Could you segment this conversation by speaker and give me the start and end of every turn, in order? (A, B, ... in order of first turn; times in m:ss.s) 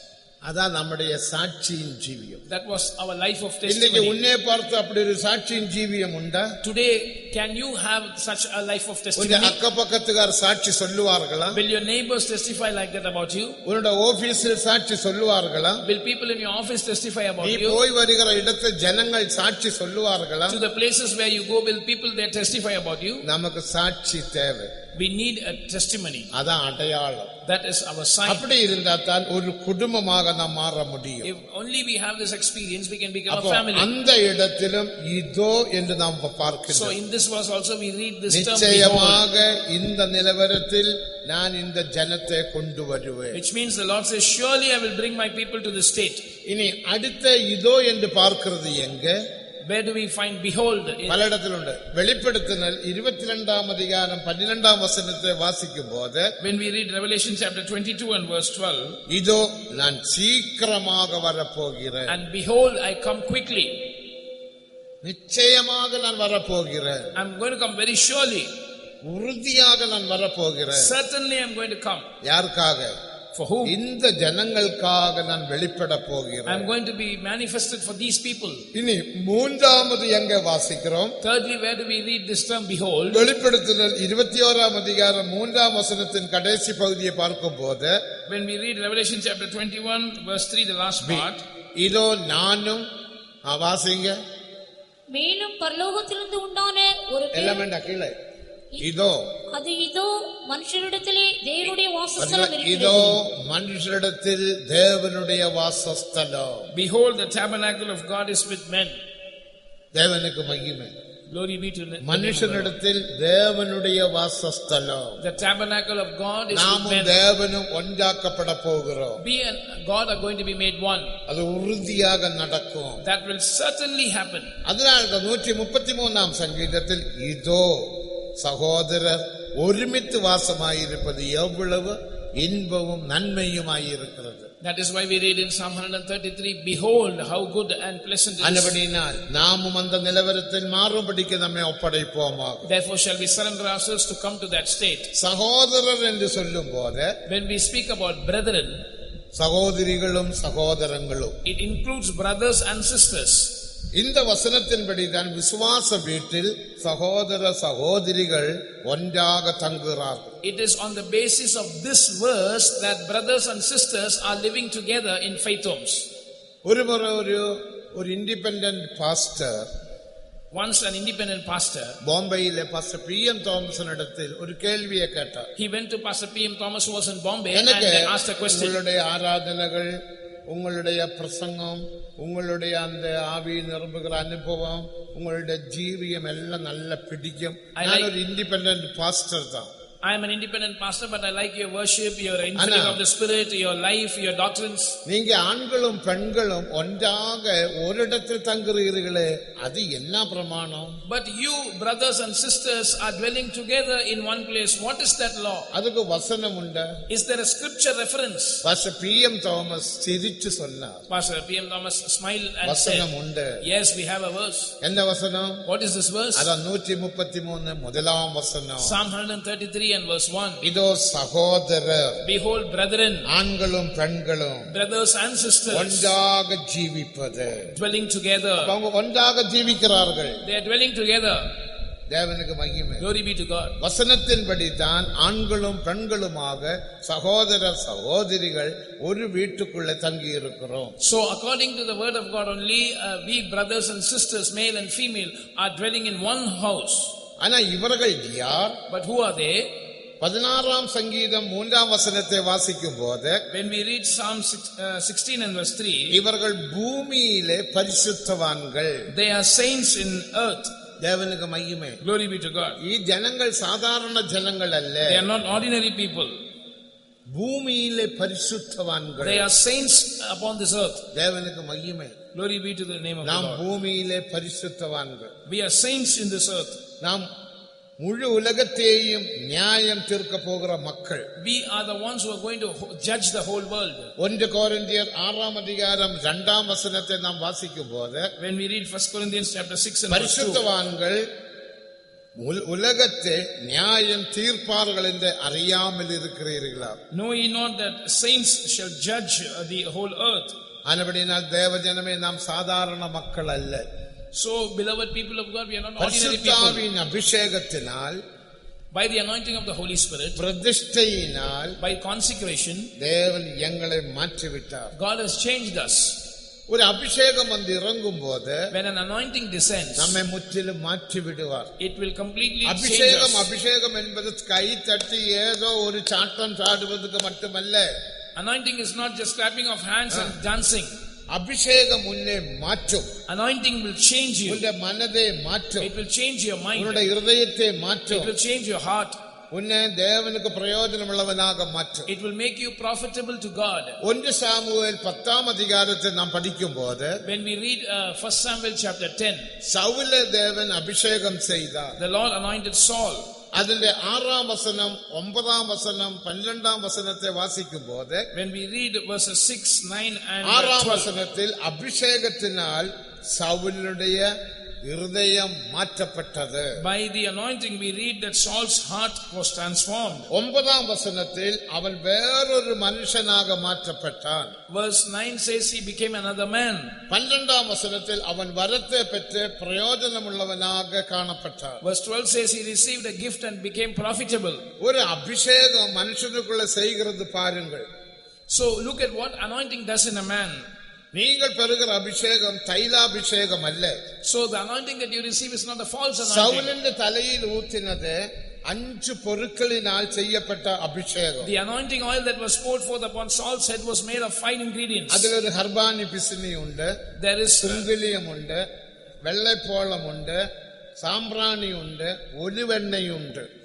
0:00.4-0:02.4 A
0:02.4-0:04.2 B
0:03.6-0:06.6 A
0:06.6-0:09.6 B
0:09.2-0:11.6 A
0:11.5-0:13.6 B
0:13.6-0:15.8 A
0:15.8-0:17.8 B
0:17.4-0:20.6 A
0:20.5-0:23.2 B
0:23.2-0:24.7 A
0:24.9-0:26.3 B
0:26.3-0:27.3 A
0:27.4-0:28.4 B
0:28.3-0:31.3 A
0:31.2-0:33.9 B
0:33.3-0:37.0 A
0:36.7-0:39.2 B
0:38.3-0:43.4 A
0:43.3-0:46.3 B
0:46.4-0:49.2 A
0:49.6-0:51.2 B
0:51.1-0:56.3 A
0:56.4-0:59.0 B
0:59.1-1:02.2 A
1:02.1-1:03.9 B
1:05.0-1:07.1 A
1:07.1-1:08.5 B
1:09.0-1:10.9 A
1:10.7-1:12.1 B
1:12.2-1:12.9 A
1:13.3-1:13.8 B
1:13.6-1:16.7 A
1:16.4-1:18.7 B
1:18.7-1:21.1 A
1:21.2-1:23.3 B
1:23.1-1:28.0 A
1:28.3-1:31.4 B
1:31.0-1:31.3 A
1:31.8-1:32.8 A
1:33.4-1:34.2 A
1:35.1-1:37.6 C
1:37.3-1:38.2 A
1:38.8-1:39.3 A
1:39.5-1:43.2 C
1:42.2-1:46.7 A
1:46.7-1:49.0 B
1:49.9-1:50.9 A
1:51.3-1:52.7 B
1:52.0-1:55.2 A
1:55.2-1:57.2 B
1:56.5-1:59.2 A
1:59.2-2:01.1 B
2:01.3-2:03.0 A
2:03.0-2:04.5 B
2:04.6-2:14.5 A
2:14.6-2:18.8 B
2:18.4-2:22.7 A
2:22.6-2:25.1 B
2:25.1-2:27.1 A
2:27.3-2:28.8 B
2:29.4-2:31.4 A
2:31.4-2:33.6 B
2:33.9-2:40.3 A
2:40.4-2:46.1 B
2:46.6-2:49.7 A
2:50.5-2:52.0 B
2:52.0-2:55.5 A
2:55.6-2:58.8 B
2:57.5-3:09.7 A
3:07.8-3:08.1 B
3:10.0-3:15.0 B
3:12.6-3:13.0 A
3:15.0-3:21.0 A
3:21.1-3:25.7 B
3:25.7-3:26.9 A
3:27.1-3:28.6 B
3:28.6-3:31.0 A
3:31.1-3:33.1 B
3:32.6-3:33.6 A
3:33.6-3:34.7 B
3:34.8-3:35.6 A
3:35.6-3:36.5 B
3:36.3-3:38.9 A
3:38.8-3:40.6 B
3:40.6-3:42.2 A
3:42.2-3:43.3 B
3:43.3-3:44.7 A
3:44.7-3:46.1 B
3:45.7-3:47.7 A
3:47.7-3:48.7 B
3:48.6-3:50.4 A
3:50.4-3:51.5 B
3:52.1-3:53.0 A
3:53.0-3:53.8 B
3:53.8-4:00.9 A
4:01.0-4:07.1 B
4:07.4-4:08.8 A
4:08.9-4:09.7 B
4:10.2-4:13.4 A
4:13.5-4:16.2 B
4:16.1-4:19.1 A
4:19.1-4:20.7 B
4:21.0-4:22.0 A
4:22.0-4:22.8 B
4:22.8-4:25.2 A
4:25.0-4:26.4 B
4:27.3-4:29.4 A
4:29.2-4:31.0 B
4:31.1-4:32.2 A
4:32.3-4:33.6 B
4:33.2-4:35.3 A
4:35.5-4:36.8 B
4:37.0-4:37.3 A
4:38.0-4:41.2 A
4:41.4-4:44.1 B
4:44.2-4:48.3 A
4:48.4-4:50.6 B
4:50.1-4:51.2 A
4:52.4-4:57.0 A
4:57.1-5:00.6 B
5:00.9-5:03.8 A
5:04.3-5:06.9 B
5:06.0-5:08.2 A
5:08.9-5:10.4 B
5:10.4-5:11.8 A
5:11.8-5:12.9 B
5:13.0-5:14.9 A
5:14.9-5:16.2 B
5:16.7-5:18.6 A
5:18.7-5:20.2 B
5:20.0-5:21.7 A
5:21.8-5:23.5 B
5:22.6-5:27.9 A
5:28.3-5:31.0 B
5:31.3-5:33.1 A
5:33.3-5:34.6 B
5:34.5-5:35.9 A
5:35.8-5:37.0 B
5:36.7-5:38.3 A
5:38.1-5:39.2 B
5:39.5-5:42.1 A
5:42.1-5:44.0 B
5:44.0-5:47.2 A
5:47.2-5:49.5 B
5:49.6-5:52.0 A
5:52.0-5:53.3 B
5:53.5-5:58.3 A
5:58.3-6:01.1 B
6:00.4-6:06.8 A
6:06.8-6:10.3 B
6:10.3-6:14.6 A
6:14.7-6:17.0 B
6:17.1-6:21.8 A
6:21.8-6:24.6 B
6:24.8-6:27.9 A
6:28.5-6:30.7 B
6:31.1-6:34.0 A
6:34.2-6:36.7 B
6:36.2-6:41.5 A
6:41.4-6:45.3 B
6:45.1-6:47.0 A
6:47.2-6:47.9 B
6:47.6-6:48.6 A
6:49.2-6:50.4 A
6:51.0-6:53.5 A